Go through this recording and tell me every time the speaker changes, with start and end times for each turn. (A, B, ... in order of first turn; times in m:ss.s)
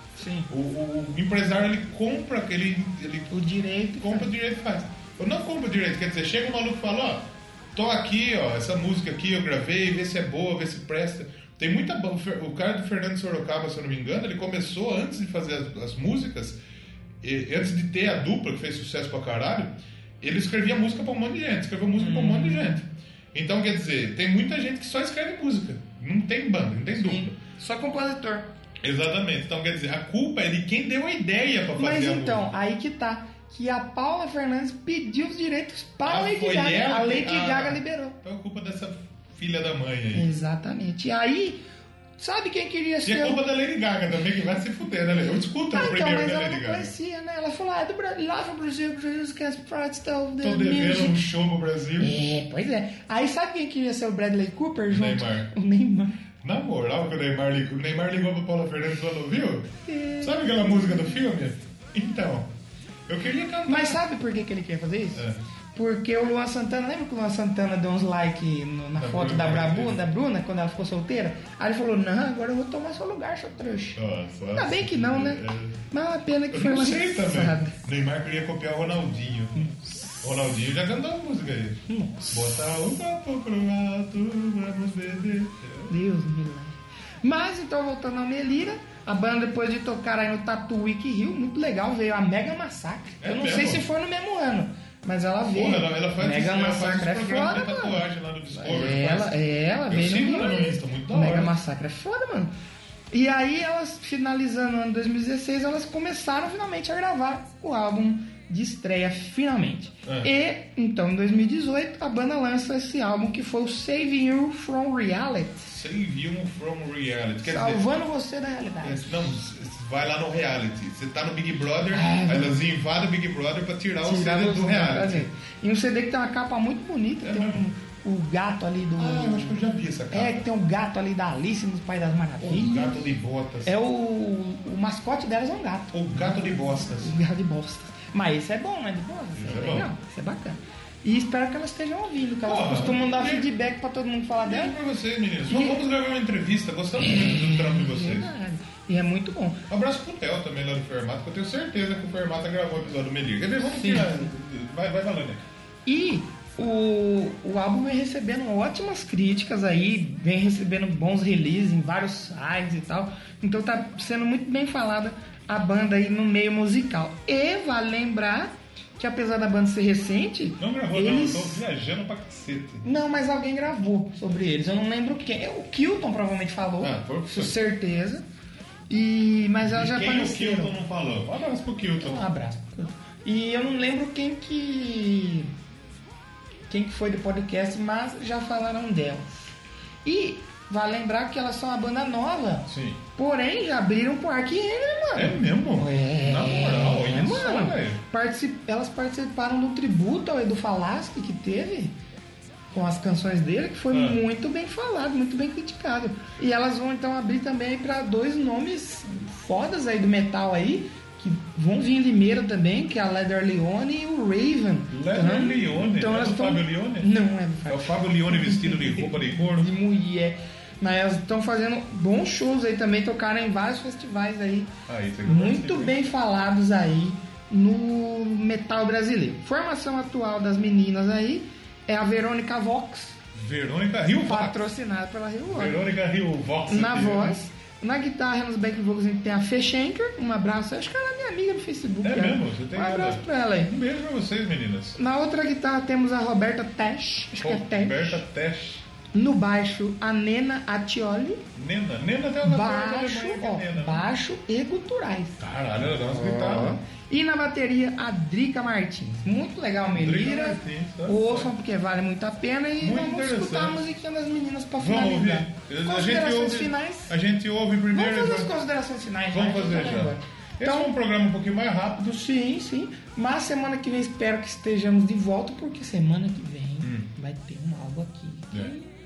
0:00.2-0:00.5 A
0:00.5-0:03.3 B
0:03.3-0:04.3 A
0:04.0-0:16.6 B
0:17.2-0:27.4 B
0:22.0-0:22.8 A
0:27.0-0:28.5 A
0:28.8-0:32.5 B
0:31.8-0:38.2 A
0:36.0-0:40.3 B
0:40.1-0:41.6 A
0:42.2-0:43.4 A
0:43.0-0:46.9 B
0:45.7-0:51.3 A
0:50.4-0:52.2 B
0:52.0-0:56.2 A
0:54.9-0:55.5 B
0:56.4-1:02.5 B
0:59.8-1:01.2 A
1:03.1-1:04.0 B
1:03.7-1:14.0 A
1:05.1-1:05.4 B
1:09.0-1:10.1 B
1:14.0-1:15.8 B
1:14.5-1:17.8 A
1:16.5-1:25.9 B
1:21.9-1:22.6 A
1:25.9-1:42.5 A
1:33.2-1:33.8 B
1:35.5-1:39.4 B
1:39.9-1:41.5 B
1:43.1-1:55.7 A
1:50.0-1:50.3 B
1:55.7-1:57.9 B
1:57.4-1:59.3 A
1:58.8-2:05.3 B
2:01.9-2:02.5 A
2:04.0-2:09.6 A
2:07.2-2:07.6 B
2:09.0-2:10.4 B
2:10.1-2:13.1 A
2:12.4-2:13.8 B
2:13.6-2:24.8 A
2:15.9-2:17.2 B
2:19.4-2:19.9 B
2:22.4-2:23.5 B
2:24.4-2:28.3 B
2:25.5-2:25.8 A
2:27.0-2:29.6 A
2:29.7-2:35.4 B
2:33.7-2:34.3 A
2:35.8-2:51.6 A
2:50.6-2:52.8 B
2:52.8-2:58.2 A
2:56.8-2:57.6 B
2:58.9-3:00.7 A
2:59.6-3:02.2 B
3:02.0-3:05.5 A
3:06.7-3:09.3 A
3:10.0-3:21.9 A
3:12.7-3:13.0 B
3:15.1-3:18.0 B
3:22.7-3:44.7 A
3:23.9-3:24.2 B
3:34.9-3:37.1 B
3:37.7-3:39.7 B
3:44.9-3:46.0 B
3:45.2-3:53.2 A
3:53.3-3:54.6 B
3:54.2-3:55.8 A
3:55.5-3:57.4 B
3:56.7-4:03.7 A
4:02.0-4:05.0 B
4:05.0-4:08.2 A
4:07.4-4:08.8 B
4:09.1-4:11.4 A
4:11.6-4:14.1 B
4:12.4-4:15.4 A
4:15.4-4:16.8 B
4:16.1-4:27.1 A
4:19.9-4:21.5 B
4:22.8-4:23.8 B
4:24.8-4:28.5 B
4:27.9-4:30.9 A
4:29.3-4:32.1 B
4:32.0-4:38.8 A
4:36.8-4:37.1 B